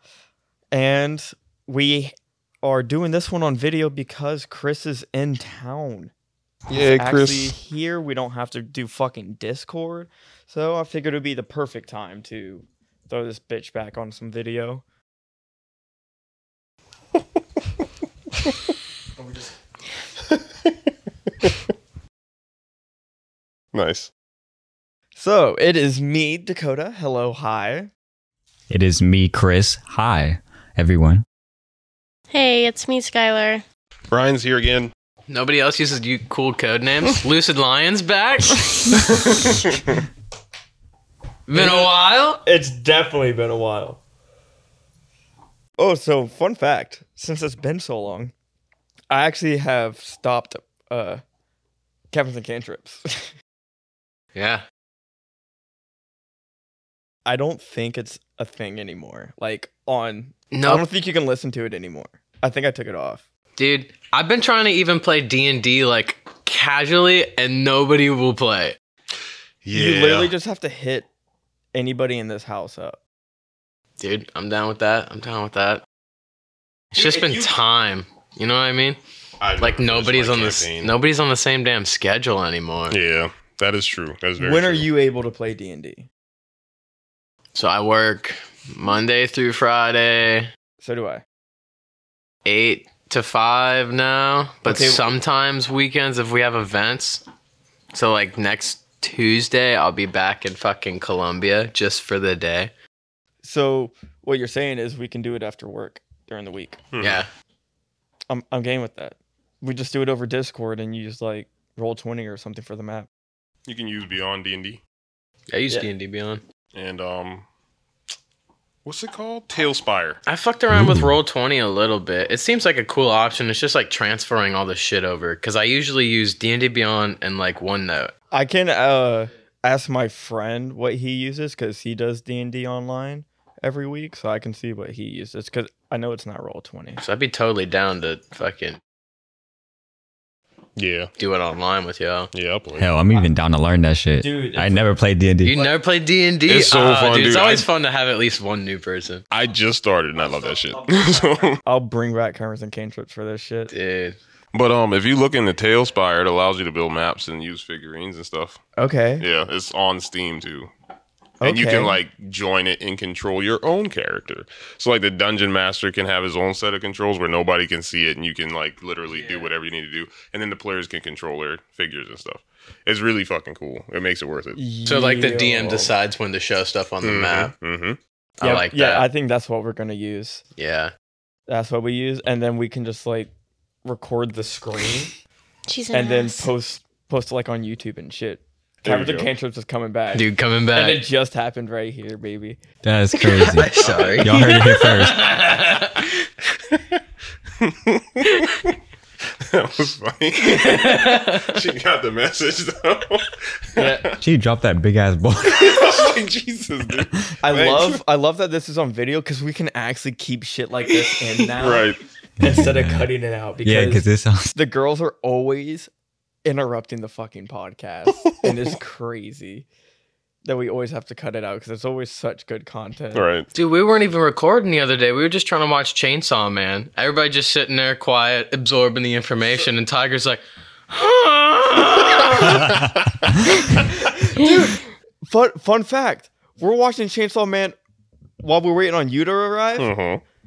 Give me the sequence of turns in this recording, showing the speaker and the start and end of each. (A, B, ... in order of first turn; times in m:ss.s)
0:00.7-0:06.1 A
0:06.7-0:07.5 B
0:06.7-0:14.8 A
0:19.2-0:19.5 A
0:23.7-0:24.1 B
0:25.2-0:27.9 A
0:28.7-0:31.2 C
0:32.3-0:33.6 D
0:34.1-0:34.9 B
0:35.3-0:38.6 E
0:39.1-0:39.8 B
0:41.5-0:42.4 E
0:41.5-0:41.9 A
0:42.4-0:44.0 A
0:45.8-0:48.3 A
0:49.1-0:51.2 A
0:52.1-0:53.3 A
0:54.3-0:54.6 E
0:57.2-1:03.2 A
1:00.5-1:00.8 E
1:03.6-1:08.8 E
1:09.6-1:10.3 B
1:09.7-1:11.1 A
1:11.7-1:13.0 A
1:14.0-1:15.8 E
1:16.9-1:17.5 A
1:16.9-1:19.0 E
1:19.4-1:20.9 B
1:19.6-1:23.0 E
1:22.9-1:24.8 B
1:24.4-1:26.1 A
1:27.5-1:30.5 E
1:30.8-1:31.2 A
1:32.4-1:37.2 E
1:34.6-1:35.0 A
1:37.9-1:42.7 E
1:43.4-1:46.8 A
1:46.9-1:47.2 B
1:47.0-1:47.3 E
1:48.3-1:53.1 A
1:53.6-1:54.8 B
1:55.5-1:56.4 E
1:56.7-1:57.4 B
1:58.8-2:00.2 B
2:00.3-2:08.1 E
2:00.7-2:01.1 C
2:08.3-2:17.0 A
2:17.0-2:18.8 E
2:20.8-2:21.1 B
2:21.2-2:22.3 E
2:22.3-2:22.9 B
2:22.8-2:25.5 C
2:24.2-2:24.8 A
2:25.4-2:29.2 E
2:26.5-2:27.7 B
2:29.3-2:31.6 B
2:30.2-2:33.7 A
2:33.7-2:34.2 E
2:34.5-2:38.6 B
2:38.8-2:39.3 A
2:39.2-2:40.7 B
2:41.4-2:42.0 A
2:41.4-2:54.6 B
2:49.1-2:49.5 E
2:54.6-2:55.9 A
2:54.8-2:57.5 E
2:57.0-2:58.0 B
2:58.4-2:59.0 E
2:58.4-3:00.4 A
3:00.6-3:00.9 E
3:01.5-3:03.3 A
3:03.8-3:05.1 A
3:05.7-3:06.5 D
3:05.9-3:12.6 A
3:08.8-3:09.3 B
3:10.1-3:11.0 E
3:12.8-3:13.7 C
3:13.2-3:16.1 E
3:13.8-3:14.1 A
3:13.8-3:14.4 B
3:14.2-3:15.3 C
3:17.6-3:18.7 B
3:19.4-3:24.2 B
3:20.4-3:21.6 E
3:23.8-3:24.1 A
3:24.2-3:26.0 C
3:25.5-3:28.0 B
3:27.4-3:35.9 A
3:31.4-3:32.0 B
3:32.4-3:33.1 C
3:33.6-3:34.6 C
3:36.4-3:39.6 A
3:38.3-3:38.6 B
3:40.4-3:43.2 A
3:43.1-3:43.5 B
3:43.5-3:52.7 E
3:52.5-3:53.3 B
3:53.8-3:57.8 A
3:58.4-3:59.9 A
3:59.8-4:00.2 B